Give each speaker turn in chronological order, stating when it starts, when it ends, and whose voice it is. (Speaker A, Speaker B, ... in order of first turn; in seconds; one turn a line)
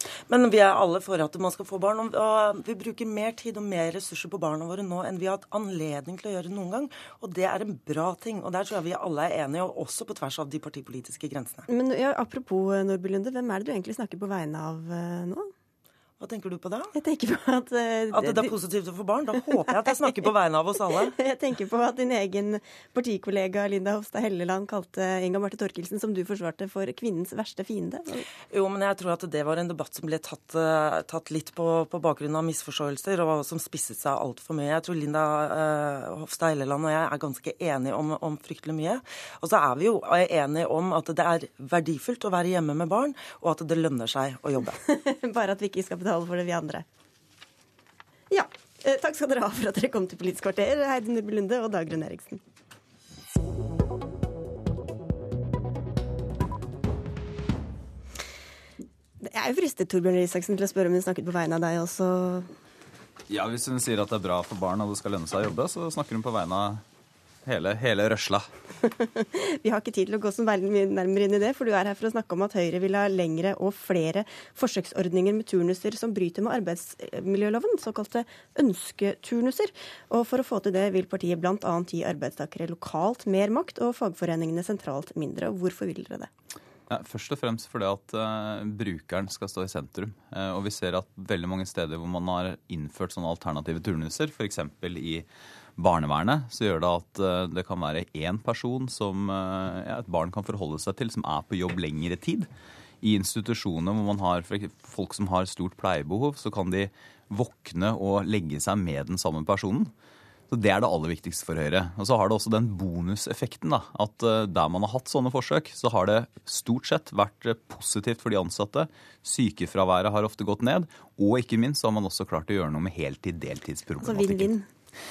Speaker A: 0.3-11.6
Speaker B: 11.7-15.5
Speaker A: 16.2-16.9
Speaker B: 16.9-18.5
Speaker A: 18.1-21.1
Speaker B: 19.3-28.2
Speaker A: 28.5-44.7
Speaker B: 44.9-46.8
Speaker B: 48.3-52.4
Speaker B: 59.2-62.5
Speaker C: 63.3-66.8
Speaker C: 67.5-68.5
Speaker B: 69.0-86.3
Speaker C: 86.9-102.5
Speaker C: 103.0-109.9
Speaker C: 110.5-124.5
Speaker B: 124.0-124.7